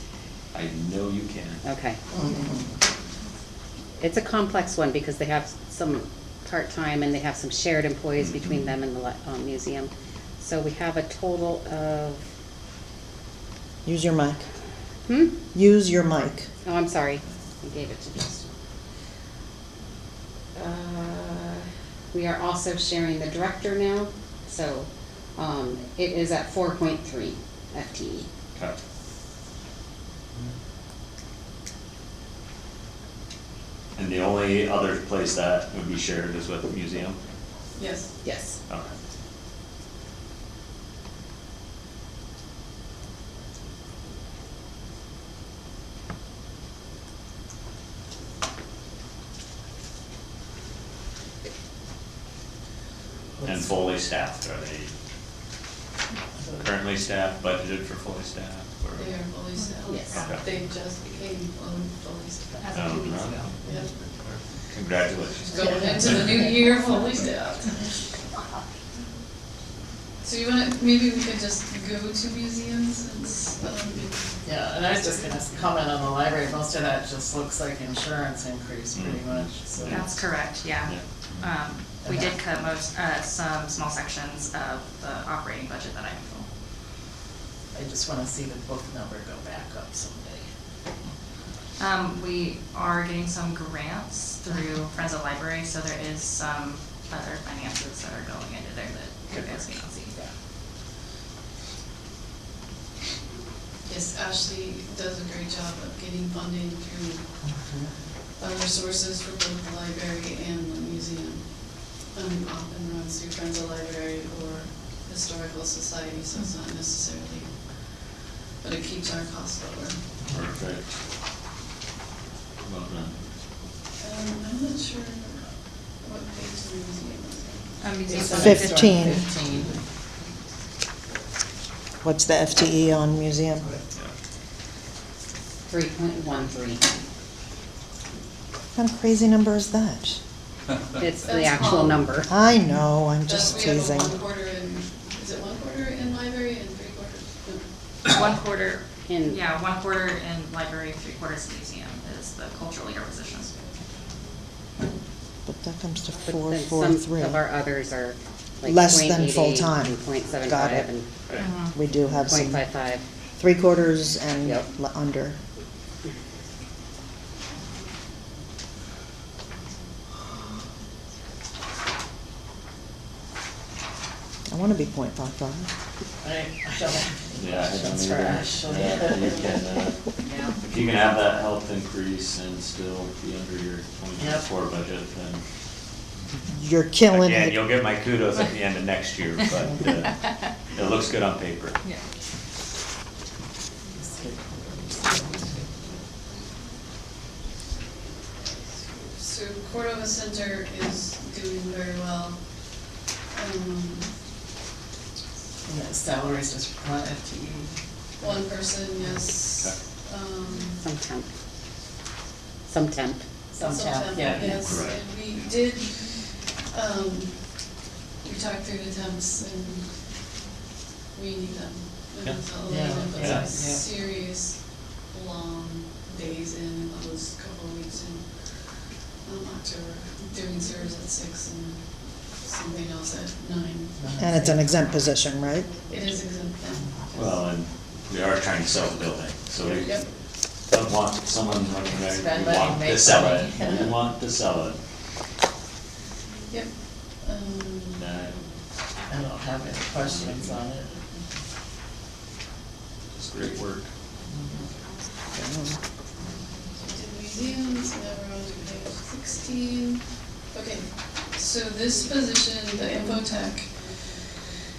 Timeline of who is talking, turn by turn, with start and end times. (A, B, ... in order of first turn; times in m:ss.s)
0:00.5-0:01.6 A
0:01.6-0:02.0 B
0:02.1-0:02.7 C
0:04.0-0:12.2 B
0:08.2-0:08.7 A
0:13.8-0:14.5 D
0:15.1-0:15.4 B
0:15.5-0:16.5 D
0:16.6-0:18.5 B
0:20.6-0:28.3 B
0:34.0-0:37.2 A
0:37.8-0:38.1 E
0:38.2-0:38.6 B
0:38.7-0:38.9 A
0:53.4-0:54.9 A
0:56.6-0:59.2 A
0:59.0-1:02.8 E
0:59.9-1:00.3 B
1:00.1-1:00.4 A
1:02.6-1:03.6 F
1:02.7-1:03.5 A
1:03.6-1:04.0 E
1:04.7-1:06.2 A
1:05.5-1:08.1 E
1:10.2-1:14.3 E
1:14.4-1:20.2 C
1:18.9-1:20.2 A
1:19.9-1:26.5 F
1:20.8-1:21.5 A
1:22.0-1:22.4 C
1:27.7-1:30.5 C
1:31.8-1:40.2 F
1:39.3-1:39.6 C
1:43.9-1:47.4 E
1:47.5-1:47.8 D
1:48.4-2:00.0 E
2:00.3-2:00.9 A
2:02.6-2:03.2 A
2:04.0-2:05.4 E
2:06.0-2:07.8 E
2:07.8-2:09.2 F
2:08.1-2:09.8 C
2:08.4-2:09.2 D
2:12.0-2:13.8 D
2:15.7-2:16.8 B
2:18.8-2:20.2 D
2:21.0-2:22.3 B
2:21.3-2:22.0 E
2:22.3-2:24.2 D
2:23.3-2:27.6 E
2:28.1-2:33.5 F
2:29.1-2:29.4 B
2:35.5-2:37.4 D
2:36.2-2:41.4 B
2:38.6-2:40.9 D
2:41.4-2:41.8 F
2:41.6-2:42.6 D
2:42.1-2:43.0 B
2:43.4-2:45.4 D
2:44.4-2:44.7 B
2:54.5-2:55.7 D
2:56.2-2:59.6 C
2:57.4-3:00.1 A
3:00.6-3:05.4 A
3:04.2-3:04.5 C
3:06.5-3:07.6 D
3:07.1-3:11.8 A
3:13.9-3:15.7 C
3:18.9-3:24.1 E
3:25.6-3:28.4 C
3:28.2-3:30.8 E
3:29.4-3:29.8 A
3:30.8-3:31.3 B
3:32.7-3:33.2 B
3:33.5-3:34.7 C
3:33.6-3:40.4 E
3:34.2-3:35.0 A
3:41.1-3:54.1 E
3:42.2-3:43.5 A
3:42.6-3:43.9 C
3:54.0-3:54.6 C
3:54.2-3:55.7 D
3:55.9-3:57.4 E
3:57.1-4:04.8 A
4:01.8-4:04.0 C
4:06.5-4:08.1 E
4:08.0-4:08.5 A
4:09.1-4:11.0 C
4:09.9-4:10.7 A
4:13.1-4:13.9 A
4:14.3-4:14.6 C
4:15.3-4:15.8 D
4:16.8-4:24.6 E